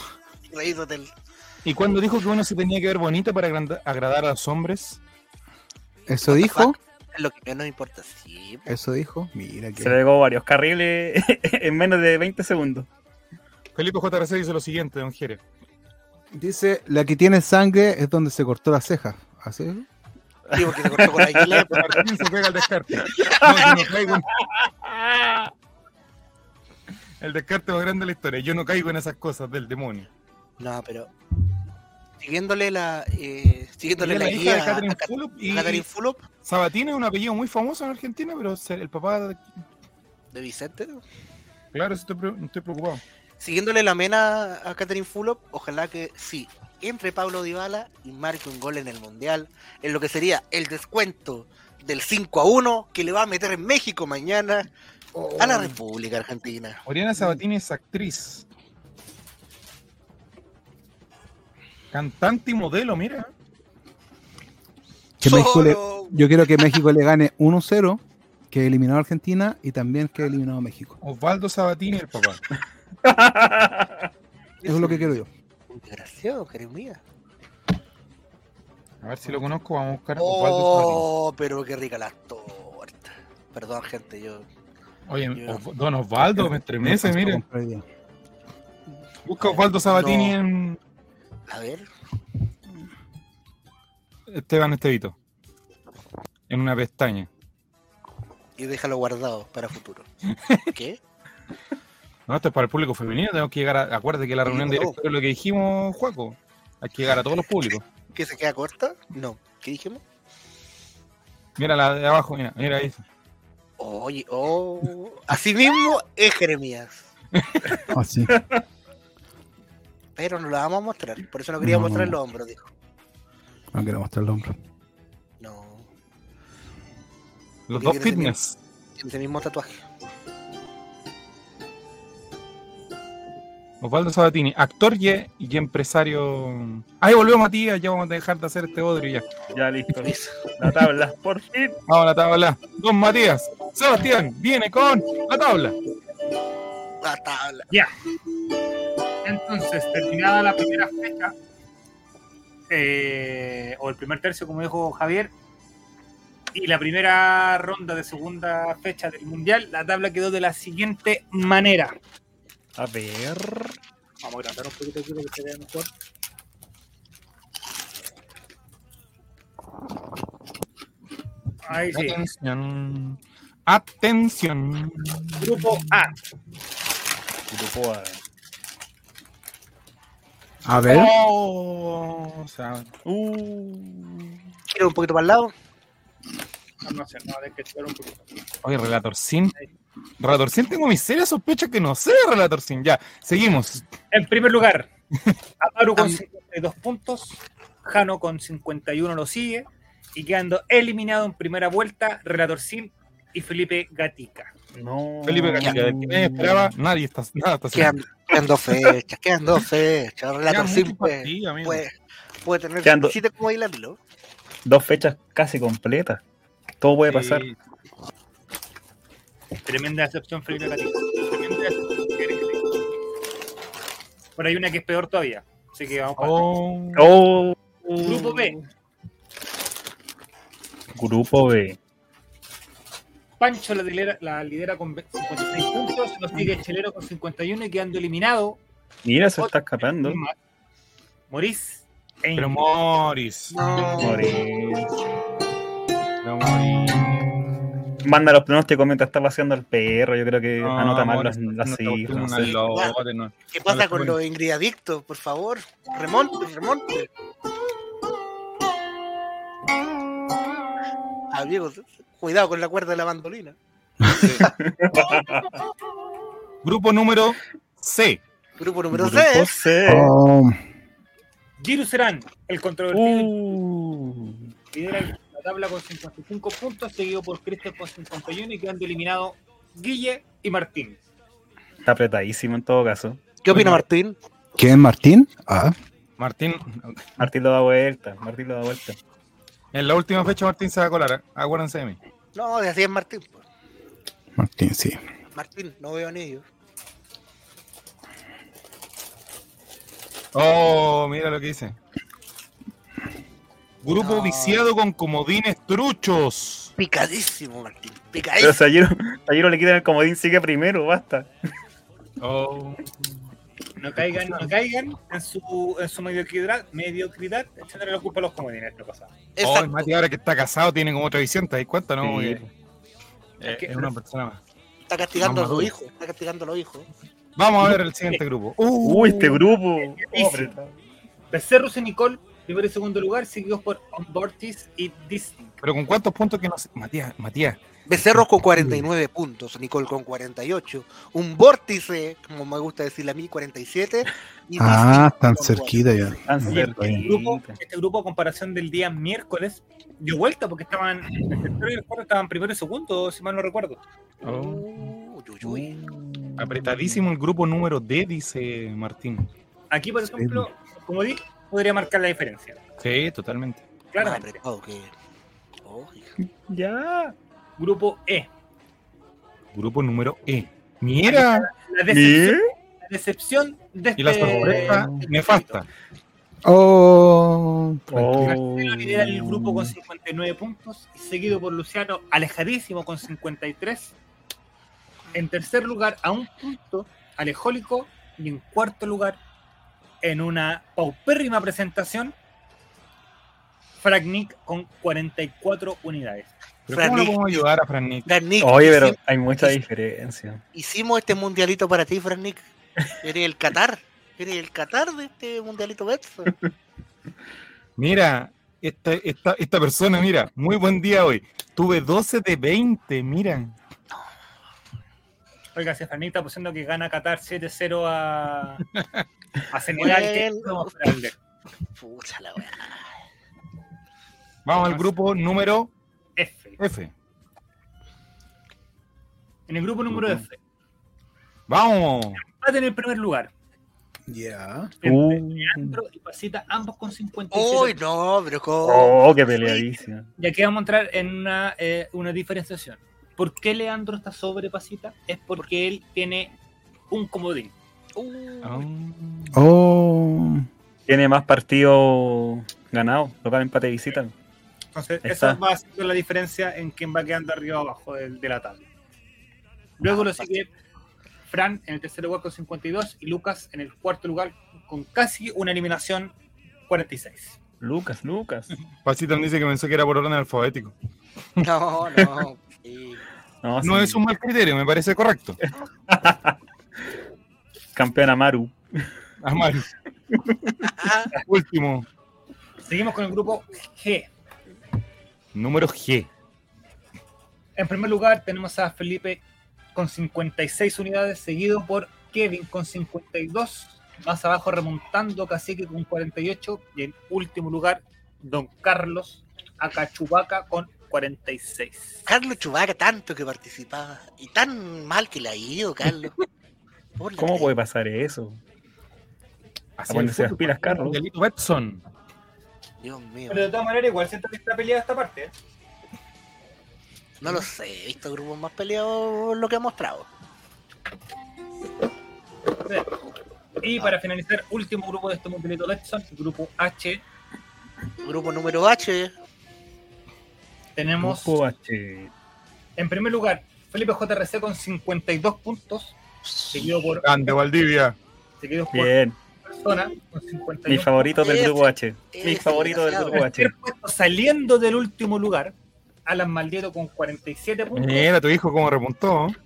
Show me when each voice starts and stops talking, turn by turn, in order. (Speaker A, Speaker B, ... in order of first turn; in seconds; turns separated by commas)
Speaker A: 0.5-1.1, Speaker B: 1.6-5.0, Speaker C: 6.1-6.8, Speaker A: 6.3-8.8, Speaker C: 8.7-10.0, Speaker D: 9.8-12.9, Speaker B: 13.8-15.4, Speaker C: 16.3-19.9, Speaker A: 20.5-21.9, Speaker D: 20.9-22.0, Speaker B: 21.6-24.3, Speaker A: 23.3-23.8, Speaker D: 23.4-23.8, Speaker D: 24.4-25.5, Speaker B: 27.2-30.1, Speaker A: 30.6-31.1, Speaker A: 32.2-36.2, Speaker B: 34.0-35.9, Speaker B: 36.4-39.5, Speaker A: 40.3-41.0, Speaker B: 41.7-43.0, Speaker A: 43.4-54.7, Speaker C: 55.1-55.8, Speaker A: 55.4-56.8, Speaker B: 56.9-58.5, Speaker B: 61.9-63.3, Speaker C: 65.2-71.0, Speaker A: 65.2-66.6, Speaker B: 71.0-72.4, Speaker D: 73.0-74.1, Speaker A: 74.6-75.1, Speaker C: 74.7-75.3, Speaker A: 75.7-77.0, Speaker B: 79.0-81.1, Speaker A: 80.2-84.5, Speaker B: 85.1-87.4, Speaker A: 85.4-85.7, Speaker C: 86.4-87.8, Speaker B: 89.2-90.8, Speaker A: 89.4-90.4, Speaker A: 91.5-91.9, Speaker B: 94.3-95.2, Speaker B: 96.5-97.3, Speaker A: 98.6-100.1, Speaker A: 100.7-101.0, Speaker B: 102.3-107.8, Speaker A: 104.5-105.0, Speaker A: 108.1-110.0, Speaker B: 111.6-113.0, Speaker A: 113.8-117.1, Speaker B: 117.3-117.7, Speaker C: 117.9-118.3, Speaker D: 118.3-118.6, Speaker A: 120.2-122.7, Speaker C: 121.6-122.2, Speaker C: 123.7-124.5, Speaker A: 125.4-125.9, Speaker B: 127.7-128.6, Speaker A: 127.7-128.4, Speaker A: 129.0-129.8, Speaker B: 133.8-139.3, Speaker D: 139.5-141.8, Speaker A: 140.0-140.4, Speaker B: 141.9-145.8, Speaker A: 147.0-147.7, Speaker E: 149.2-151.3, Speaker E: 152.7-155.3, Speaker E: 156.5-162.0, Speaker D: 162.8-163.8, Speaker E: 164.2-165.9, Speaker E: 171.7-172.2, Speaker B: 171.9-175.8, Speaker E: 175.4-176.2, Speaker D: 177.5-178.2, Speaker C: 180.7-181.1, Speaker B: 180.8-182.9, Speaker D: 183.1-184.4, Speaker A: 184.7-185.5, Speaker E: 186.8-188.3, Speaker B: 188.6-189.5, Speaker B: 190.2-193.8, Speaker E: 194.1-194.9, Speaker E: 195.6-204.5, Speaker D: 204.7-206.7, Speaker B: 205.3-207.9, Speaker A: 207.7-211.9, Speaker B: 210.5-211.8, Speaker A: 212.4-214.0, Speaker D: 212.8-213.2, Speaker D: 214.7-216.2, Speaker D: 216.8-217.5, Speaker B: 217.1-217.6, Speaker E: 219.7-222.6, Speaker E: 224.4-226.5, Speaker B: 226.2-227.1, Speaker D: 227.0-228.7, Speaker E: 228.0-228.6, Speaker D: 230.9-231.8, Speaker E: 233.4-238.6, Speaker D: 239.1-240.2, Speaker E: 239.4-240.4, Speaker E: 241.3-242.6, Speaker B: 242.4-243.6, Speaker A: 243.5-244.4, Speaker D: 244.0-244.9, Speaker B: 246.2-247.3, Speaker D: 248.0-252.5, Speaker B: 250.6-254.2, Speaker A: 252.3-253.0, Speaker A: 253.5-257.1, Speaker A: 261.3-263.6, Speaker C: 264.0-264.3, Speaker B: 264.2-264.5, Speaker D: 264.5-265.5, Speaker B: 266.6-268.2, Speaker A: 268.6-269.6, Speaker D: 268.9-270.1, Speaker C: 269.9-270.6, Speaker E: 271.6-273.3, Speaker D: 272.9-274.5, Speaker E: 274.7-281.0, Speaker D: 281.8-283.2, Speaker A: 283.4-284.2, Speaker B: 283.5-283.8, Speaker C: 284.6-285.8, Speaker B: 286.2-287.3, Speaker D: 287.2-289.0, Speaker B: 289.7-292.0, Speaker A: 292.4-293.4, Speaker C: 294.4-295.0, Speaker A: 295.4-296.4, Speaker B: 300.3-301.8, Speaker B: 303.8-306.7, Speaker A: 304.0-304.7, Speaker A: 306.8-308.6, Speaker D: 308.4-311.3, Speaker B: 312.2-313.3, Speaker E: 313.8-319.1, Speaker B: 314.0-314.5, Speaker A: 319.4-319.9, Speaker B: 319.4-322.5, Speaker D: 322.0-322.4, Speaker B: 323.4-324.4, Speaker E: 323.5-323.9, Speaker A: 324.9-326.9, Speaker B: 325.2-325.7, Speaker B: 327.4-329.4, Speaker D: 328.8-330.8, Speaker E: 329.8-330.5, Speaker E: 331.3-335.6, Speaker B: 335.6-337.6, Speaker A: 337.9-345.8, Speaker C: 338.6-338.9, Speaker C: 344.6-347.0, Speaker D: 346.3-347.6, Speaker E: 346.5-353.8, Speaker A: 354.2-355.8, Speaker B: 354.2-354.7, Speaker D: 355.4-357.1, Speaker B: 356.4-359.3, Speaker E: 359.7-362.6, Speaker C: 360.1-360.5, Speaker B: 362.8-363.7, Speaker E: 363.9-364.4, Speaker A: 364.0-364.9, Speaker A: 365.6-366.1, Speaker D: 366.5-367.1, Speaker E: 367.6-368.3, Speaker B: 369.5-371.5, Speaker E: 371.1-375.6, Speaker D: 371.9-372.4, Speaker B: 374.0-375.7, Speaker D: 374.2-374.9, Speaker C: 376.4-378.4, Speaker D: 377.9-379.7, Speaker E: 378.2-383.9, Speaker E: 385.1-389.2, Speaker E: 390.0-392.1, Speaker E: 393.8-396.3, Speaker B: 396.7-398.1, Speaker A: 396.7-397.5, Speaker A: 398.1-399.6, Speaker D: 398.4-400.4, Speaker A: 400.5-402.4, Speaker A: 403.0-406.3, Speaker B: 407.8-413.6, Speaker E: 415.6-418.6, Speaker B: 418.8-419.1, Speaker E: 419.5-421.1, Speaker A: 419.8-420.7, Speaker A: 421.8-422.9, Speaker B: 424.4-425.7, Speaker E: 426.2-426.6, Speaker B: 426.6-426.9, Speaker E: 429.5-430.4, Speaker B: 431.5-432.2, Speaker E: 432.2-433.3, Speaker C: 434.1-434.7, Speaker E: 434.8-437.8, Speaker D: 434.8-435.8, Speaker A: 437.3-439.6, Speaker D: 438.6-440.1, Speaker E: 440.2-446.4, Speaker E: 446.9-447.5, Speaker A: 448.0-448.7, Speaker B: 448.4-449.4, Speaker C: 449.3-450.5, Speaker D: 450.9-454.1, Speaker E: 454.7-458.7, Speaker D: 455.0-455.4, Speaker E: 459.8-460.5, Speaker E: 461.3-466.1, Speaker E: 466.7-467.4, Speaker D: 467.6-468.5, Speaker B: 468.9-470.7, Speaker A: 471.4-473.0, Speaker D: 473.4-474.0, Speaker B: 473.6-475.4, Speaker D: 475.9-476.4, Speaker D: 477.7-478.9, Speaker B: 479.2-479.7, Speaker D: 480.1-480.6, Speaker A: 480.6-481.1, Speaker B: 481.2-481.9, Speaker E: 482.6-484.1, Speaker B: 485.3-486.1, Speaker E: 487.6-489.2, Speaker E: 489.7-502.1, Speaker A: 502.1-506.2, Speaker A: 507.0-507.5, Speaker D: 507.2-508.4, Speaker B: 509.8-511.8, Speaker D: 509.9-511.0, Speaker A: 512.8-513.5, Speaker E: 513.3-515.3, Speaker A: 517.2-520.1, Speaker E: 522.6-522.9, Speaker E: 523.6-527.0, Speaker A: 528.0-529.1, Speaker E: 530.8-531.4, Speaker D: 531.0-532.1, Speaker E: 532.8-537.1, Speaker B: 537.0-538.0, Speaker E: 538.4-541.3, Speaker D: 538.7-539.2, Speaker D: 540.7-543.5, Speaker A: 541.2-543.2, Speaker E: 543.1-545.5, Speaker E: 546.1-548.1, Speaker B: 547.7-549.4